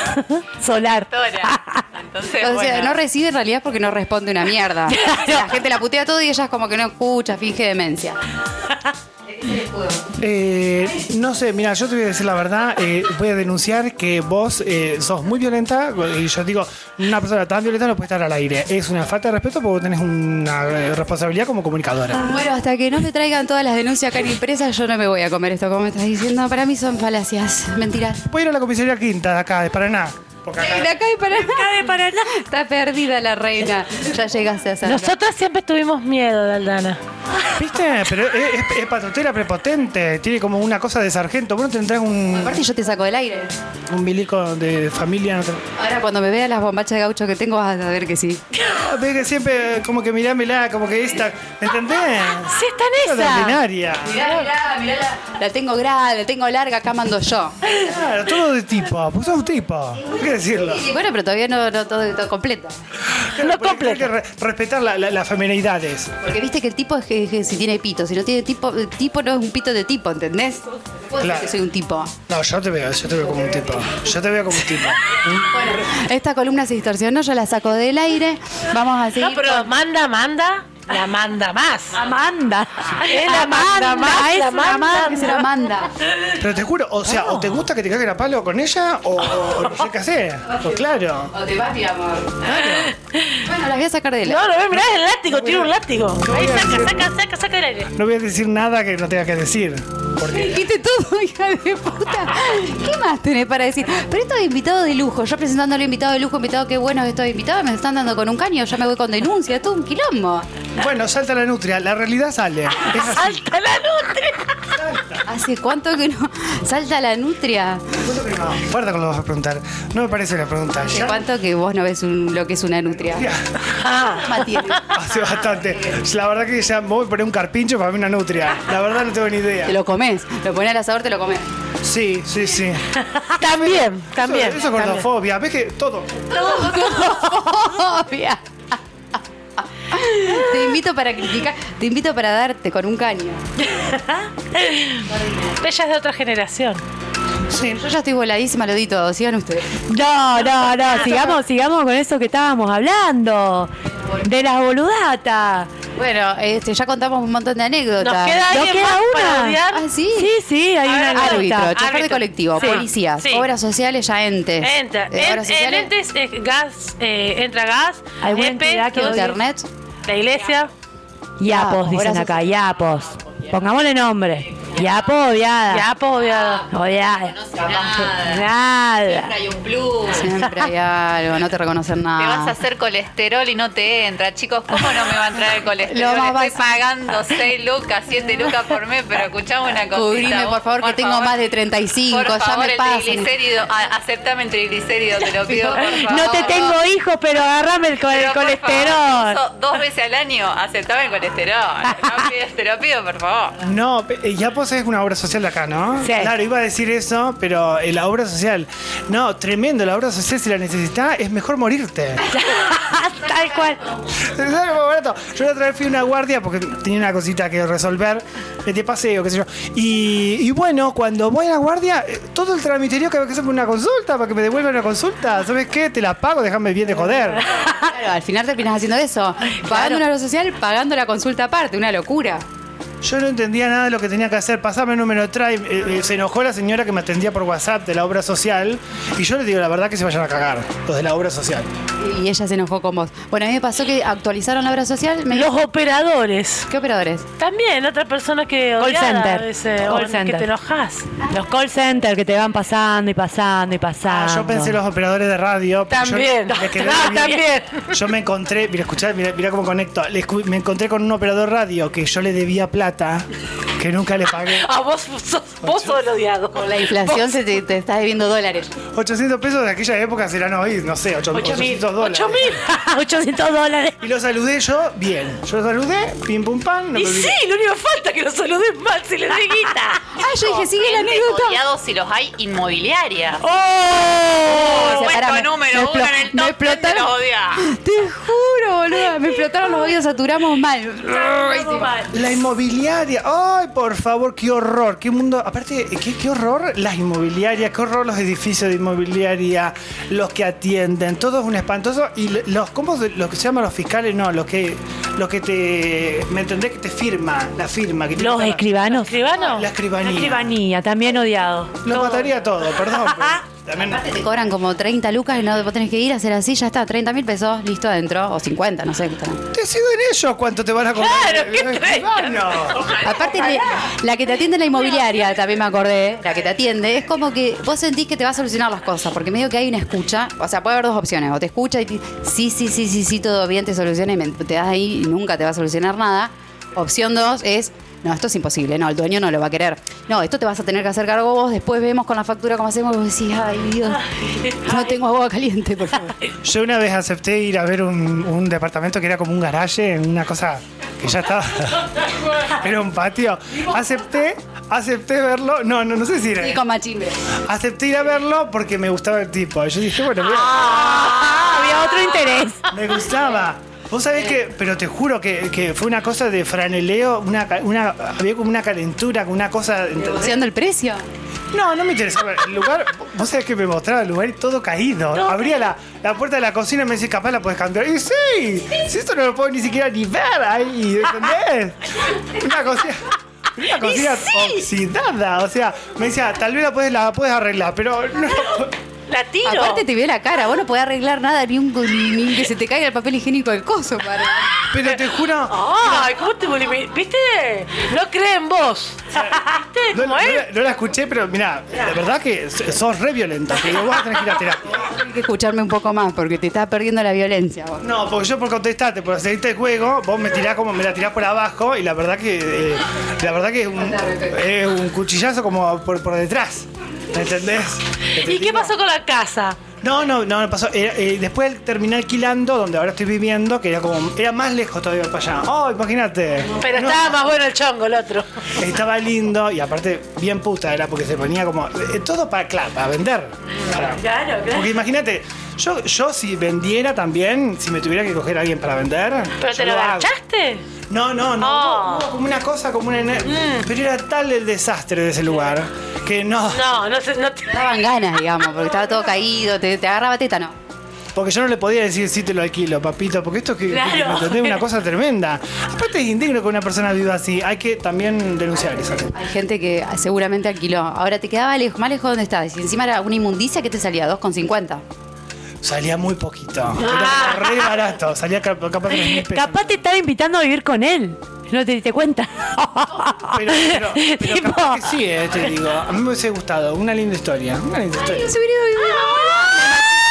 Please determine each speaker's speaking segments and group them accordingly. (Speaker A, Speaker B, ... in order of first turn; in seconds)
Speaker A: 0.2-1.8, 5.0-5.4, 31.3-32.4, 81.9-85.4, 143.8-145.0, 149.9-155.7, 158.5-159.6, 160.1-161.9, 168.2-169.4, 171.4-175.9, 176.7-179.3, 195.8-199.4, 206.0-206.3, 212.3-213.9, 248.8-250.5, 251.2-254.8, 256.7-257.6, 271.3-271.8, 272.5-274.0, 283.4-285.1, 291.1-292.1, 308.2-309.1, 310.0-312.3, 312.8-313.4, 360.4-362.7, 453.7-454.5, 468.9-474.9
Speaker B: 0.8-3.0, 174.8-175.1, 176.3-178.5, 179.1-180.3, 182.2-191.4, 192.1-196.8, 198.0-203.6, 280.6-283.4, 284.5-287.6
Speaker C: 2.4-8.2, 9.2-10.1, 22.2-28.2, 30.6-35.2, 42.3-43.6, 45.8-48.4, 54.0-57.6, 60.6-62.8, 66.2-72.1, 75.5-79.7, 84.9-85.9, 91.3-92.5, 93.4-94.5, 100.2-110.5, 115.2-117.9, 120.9-123.3, 124.1-125.0, 129.7-131.5, 136.3-139.2, 139.9-143.4, 147.5-149.8, 150.9-151.4, 155.9-158.5, 159.7-160.3, 161.1-165.9, 168.9-169.7, 171.5-172.4, 180.1-182.5, 185.9-186.8, 189.9-193.3, 195.5-196.8, 227.7-232.4, 242.0-245.5, 246.7-247.2, 266.5-268.8, 280.2-281.6, 284.6-291.9, 313.9-319.4, 322.9-346.2, 356.4-357.2, 370.0-371.0, 389.4-394.5, 404.8-407.8, 413.9-414.3, 447.5-450.5, 459.1-464.8, 478.0-479.9
Speaker D: 10.2-22.4, 28.3-30.9, 37.5-42.6, 43.9-45.6, 48.7-54.4, 57.7-60.9, 63.1-66.1, 71.2-71.5, 72.3-75.8, 86.3-91.3, 92.4-92.9, 94.8-97.1, 97.9-100.6, 110.8-113.4, 114.7-115.2, 118.0-121.2, 123.1-123.7, 124.9-129.7, 131.8-136.3, 203.6-212.2, 214.1-227.4, 233.0-241.7, 254.0-264.7, 265.6-266.0, 268.9-272.5, 274.0-277.4, 292.1-308.6, 309.4-310.5, 311.8-314.0, 319.5-322.9, 346.4-356.6, 357.4-360.8, 362.7-370.4, 371.5-388.7, 394.7-395.6, 399.1-404.8, 407.8-418.7, 419.8-427.1, 428.5-440.1, 440.9-446.7, 451.1-459.2, 465.6-469.8, 473.2-478.3
Speaker E: 34.8-37.0, 52.5-53.6, 63.4-64.1, 79.1-82.0, 83.0-85.4, 92.6-93.4, 94.2-97.9, 112.8-114.7, 123.7-124.8, 133.0-135.1, 145.6-146.8, 158.0-159.9, 160.8-163.5, 164.6-169.2, 170.1-170.7, 175.7-176.7, 229.7-229.9, 245.3-246.7, 247.4-251.1, 255.9-257.9, 264.4-267.4, 271.3-272.7, 276.9-280.2, 308.9-309.7, 320.9-322.8, 360.4-361.5, 375.1-375.6, 383.8-384.6, 389.1-389.9, 394.8-400.5, 418.1-419.6, 426.6-428.4, 433.8-434.7, 439.4-440.6, 441.4-442.1, 443.2-443.7, 446.5-447.7, 466.9-467.6